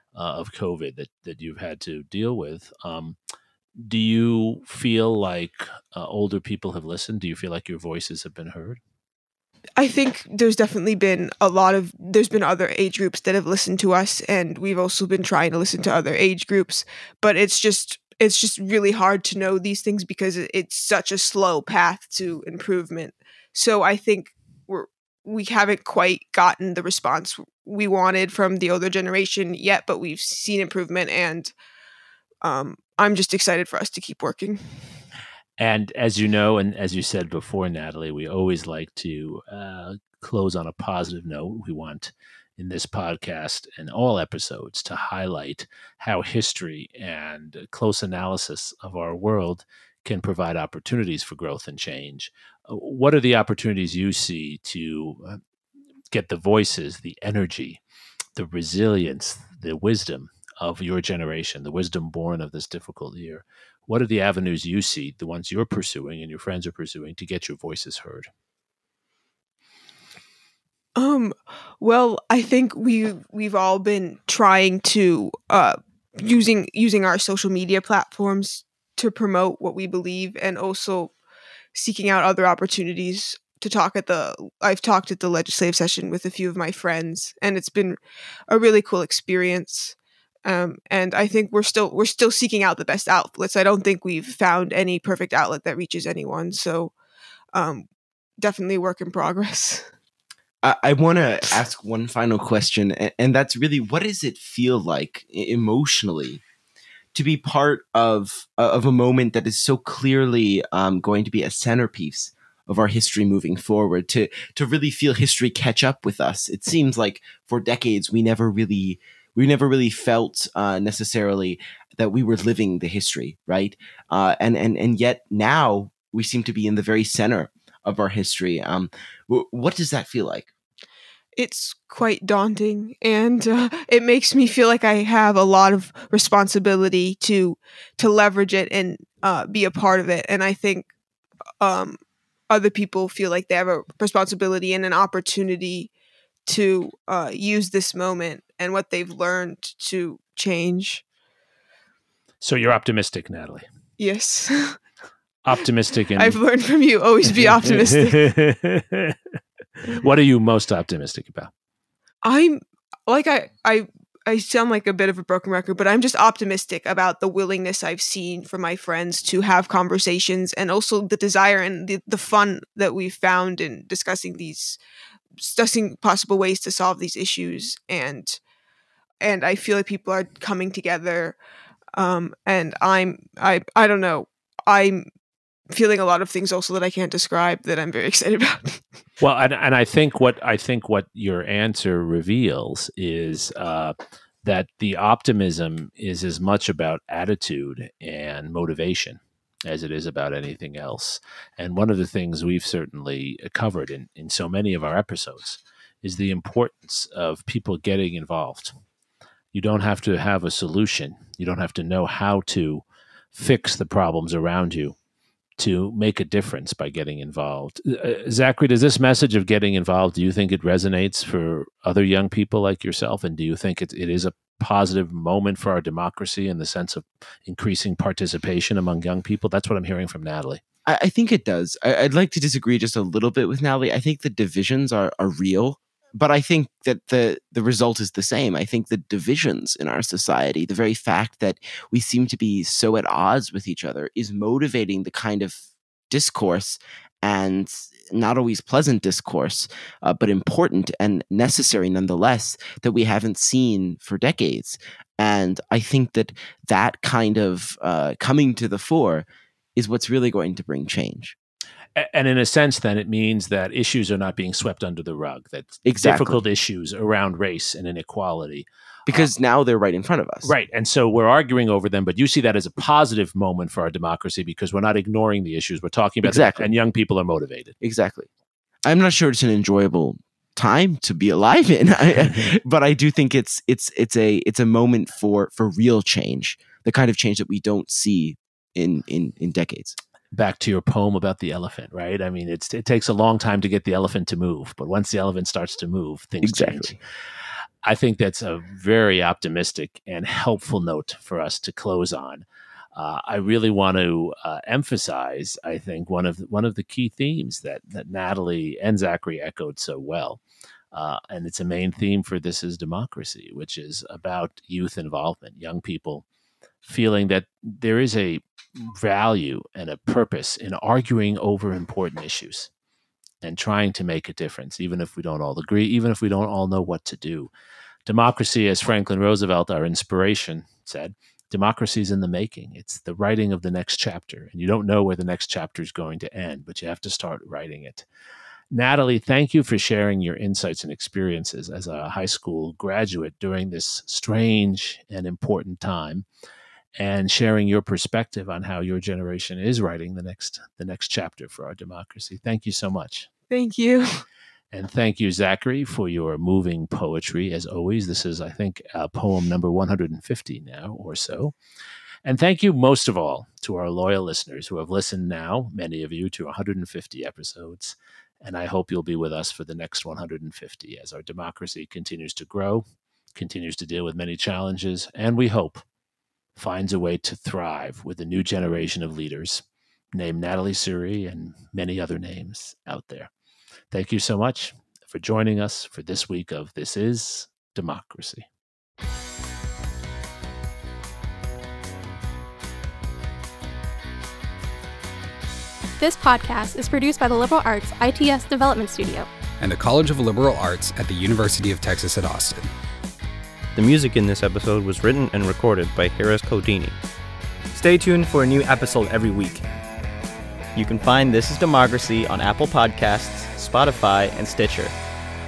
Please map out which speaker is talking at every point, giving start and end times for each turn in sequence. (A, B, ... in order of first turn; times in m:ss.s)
0:00.2-0:03.2 A
0:03.8-0:08.8 A
0:09.8-0:31.5 B
0:32.4-0:34.6 B
0:35.6-0:55.4 A
0:56.1-0:57.8 A
0:58.4-1:08.3 A
1:11.0-1:21.1 B
1:21.8-1:28.0 B
1:28.5-1:36.9 B
1:37.5-1:37.9 B
1:38.4-1:39.9 B
1:40.6-1:46.4 C
1:47.1-2:10.5 C
2:11.4-2:20.9 B
2:21.6-2:25.9 B
2:26.5-2:31.0 B
2:32.4-2:33.6 A
2:34.0-2:34.8 B
2:35.4-2:36.4 A
2:36.2-2:38.3 B
2:38.1-2:39.2 A
2:39.9-2:41.5 A
2:42.2-2:54.8 B
2:55.4-2:58.4 B
2:59.2-3:01.4 B
3:02.0-3:05.0 B
3:05.7-3:08.8 B
3:09.2-3:28.7 A
3:29.5-3:35.0 A
3:35.6-3:50.6 A
3:50.9-4:21.4 C
4:22.0-4:29.3 A
4:25.8-4:26.4 C
4:29.1-4:30.5 C
4:30.4-4:37.8 A
4:36.2-4:36.7 C
4:37.8-4:38.3 C
4:38.8-4:50.0 C
4:50.3-4:57.0 A
4:56.4-4:57.0 C
4:57.8-5:10.4 A
5:10.9-5:16.2 A
5:16.8-5:22.7 A
5:23.4-5:27.5 A
5:28.1-5:38.0 A
5:38.7-5:46.3 A
5:47.0-5:53.3 A
5:53.5-5:54.2 B
5:54.7-6:01.5 A
6:02.2-6:15.8 A
6:16.6-6:23.3 A
6:23.9-6:28.5 A
6:36.0-6:39.3 D
6:39.6-6:42.7 E
6:43.8-6:47.0 F
6:50.8-6:54.9 G